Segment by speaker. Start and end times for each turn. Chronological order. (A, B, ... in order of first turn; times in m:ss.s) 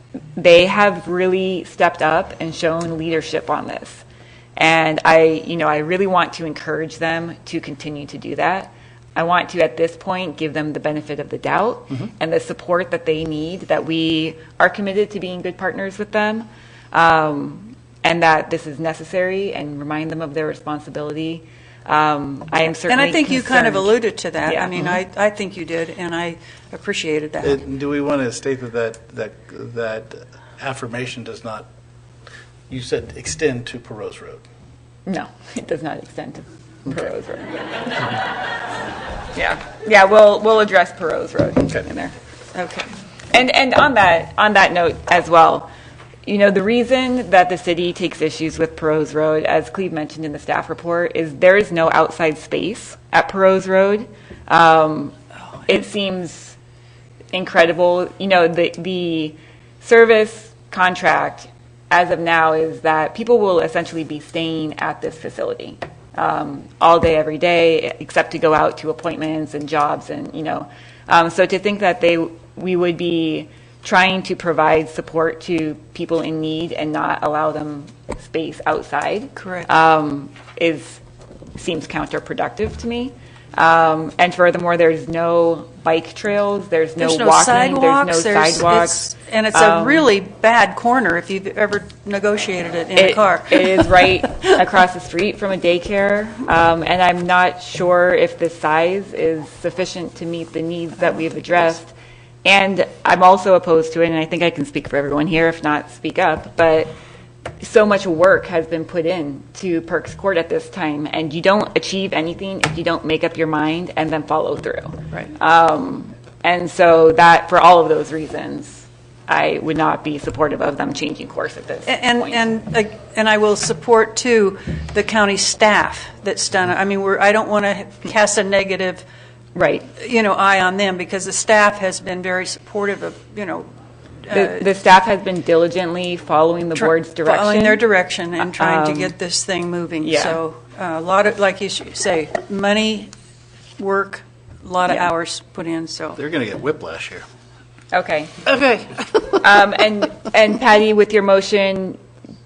0:00.4-0:04.0 A
0:04.6-0:24.8 A
0:22.9-0:27.6 B
0:27.4-0:31.7 C
0:32.7-0:34.4 C
0:35.1-0:38.2 A
0:39.3-0:42.2 A
0:42.6-0:42.8 B
0:43.3-0:45.7 A
0:46.2-0:56.6 A
0:57.3-1:21.0 A
1:19.4-1:19.7 B
1:21.6-1:30.1 A
1:27.0-1:33.9 B
1:33.0-1:41.9 A
1:42.4-1:46.9 A
1:47.6-2:02.4 A
2:01.9-2:09.0 B
2:09.6-2:09.9 A
2:10.0-2:13.7 B
2:14.3-2:14.7 B
2:14.3-2:19.2 A
2:16.8-2:23.1 B
2:20.0-2:20.4 A
2:23.8-2:26.2 B
2:24.9-2:25.1 A
2:26.2-2:27.2 C
2:27.9-2:28.6 A
2:29.3-2:32.0 A